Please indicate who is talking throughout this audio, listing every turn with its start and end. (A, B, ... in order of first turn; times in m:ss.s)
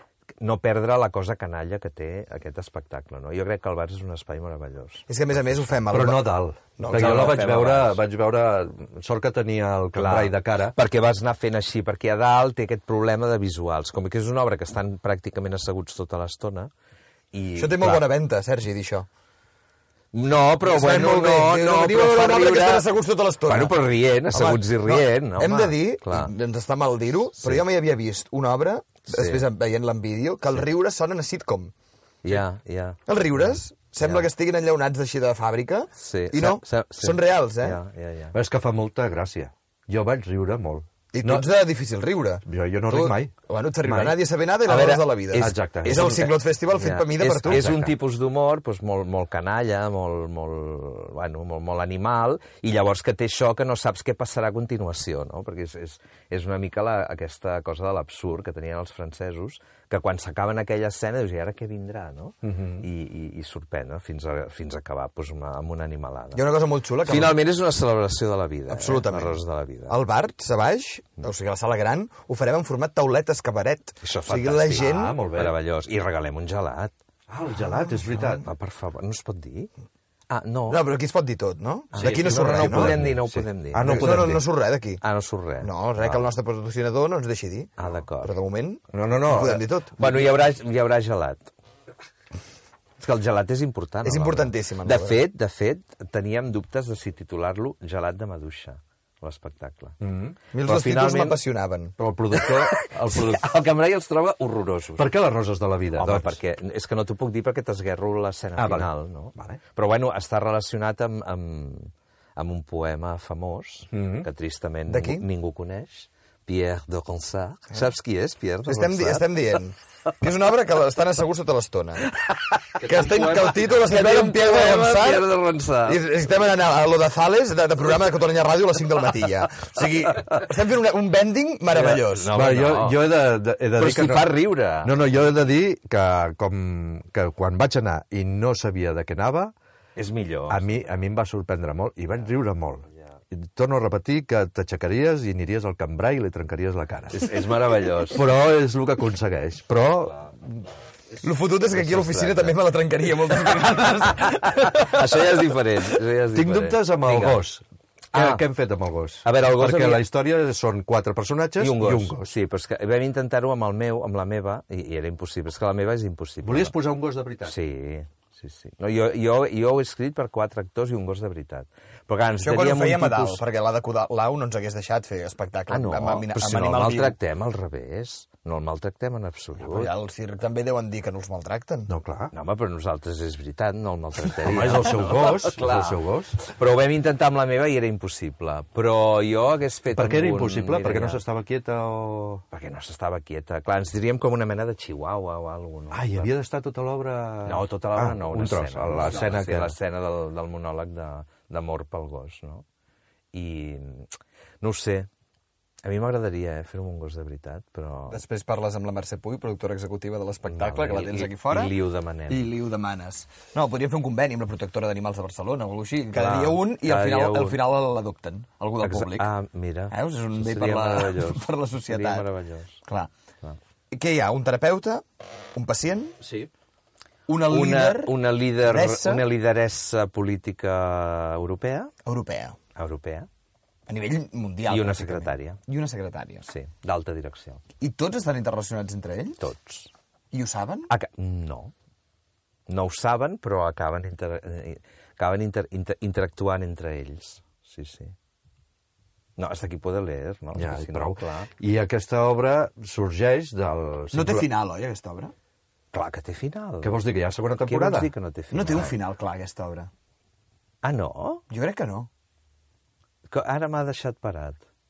0:00.4-0:05.0 A
0:05.1-0:07.4 B
0:05.9-0:10.8 C
0:06.9-0:08.0 A
0:09.9-0:16.7 A
0:17.3-0:18.1 A
0:17.6-0:19.1 B
0:20.1-0:22.9 A
0:20.6-0:23.8 B
0:23.5-0:26.3 A
0:24.3-0:31.7 B
0:29.1-0:29.4 A
0:32.2-0:33.0 A
0:33.1-0:37.8 B
0:36.0-0:38.3 A
0:38.3-0:41.5 C
0:41.1-0:47.7 B
0:42.4-0:43.3 C
0:44.6-1:06.4 A
0:45.4-0:46.2 C
0:47.5-0:47.9 C
1:02.4-1:02.8 C
1:06.3-1:07.4 B
1:07.0-1:10.0 A
1:08.7-1:15.2 B
1:14.0-1:16.9 A
1:14.8-1:15.5 C
1:17.3-1:18.5 C
1:18.2-1:19.7 A
1:20.3-1:20.8 A
1:20.7-1:23.0 B
1:21.9-1:24.3 A
1:22.0-1:24.4 C
1:23.8-1:25.0 B
1:25.0-1:26.2 A
1:25.6-1:30.2 B
1:27.8-1:28.3 A
1:28.9-1:29.6 C
1:30.0-1:31.5 A
1:33.0-1:40.0 A
1:34.0-1:35.2 B
1:40.0-1:40.4 C
1:40.5-1:41.9 B
1:40.6-1:41.4 A
1:42.0-1:43.4 C
1:42.4-1:45.1 A
1:45.0-1:46.4 C
1:46.0-1:59.4 A
1:48.6-1:49.6 C
1:53.9-1:54.3 C
1:54.9-1:55.2 B
1:58.6-2:02.0 B
2:02.1-2:06.0 A
2:02.8-2:05.3 B
2:05.8-2:12.3 B
2:11.8-2:13.1 A
2:12.3-2:19.5 C
2:13.8-2:15.0 A
2:20.0-2:20.6 A
2:20.5-2:27.3 C
2:27.1-2:28.2 A
2:28.1-2:30.3 C
2:31.2-2:35.0 B
2:31.7-2:32.6 A
2:34.1-2:37.4 A
2:36.3-2:42.3 C
2:38.1-2:38.4 A
2:39.2-2:40.0 A
2:41.6-2:46.8 A
2:46.4-2:47.5 C
2:47.4-2:53.4 A
2:52.4-2:57.2 B
2:55.7-2:59.9 A
2:59.6-3:01.9 B
3:01.9-3:02.3 C
3:02.3-3:11.2 A
3:04.4-3:06.4 C
3:09.9-3:12.4 C
3:12.5-3:16.3 A
3:15.9-3:19.7 C
3:17.5-3:22.6 A
3:23.3-3:24.1 A
3:24.6-3:25.1 A
3:25.8-3:28.2 A
3:28.1-3:31.7 B
3:30.4-3:32.5 A
3:32.3-3:39.3 B
3:36.1-3:37.6 A
3:38.8-3:42.8 A
3:39.9-3:42.2 B
3:43.9-3:46.2 B
3:46.2-3:46.5 C
3:47.3-3:49.2 B
3:47.4-3:51.9 A
3:52.0-3:52.6 B
3:52.8-3:53.3 A
3:53.9-3:56.5 B
3:54.7-3:55.6 A
3:56.5-3:57.6 A
3:57.8-3:59.4 B
3:59.4-3:59.9 A
4:00.3-4:00.9 B
4:00.9-4:01.7 A
4:02.7-4:08.1 A
4:09.4-4:11.5 A
4:10.5-4:14.4 C
4:14.1-4:15.3 B
4:15.9-4:17.0 A
4:16.8-4:18.1 C
4:17.6-4:19.0 A
4:18.5-4:19.9 B
4:20.8-4:21.4 A
4:21.5-4:22.1 B
4:23.3-4:24.6 A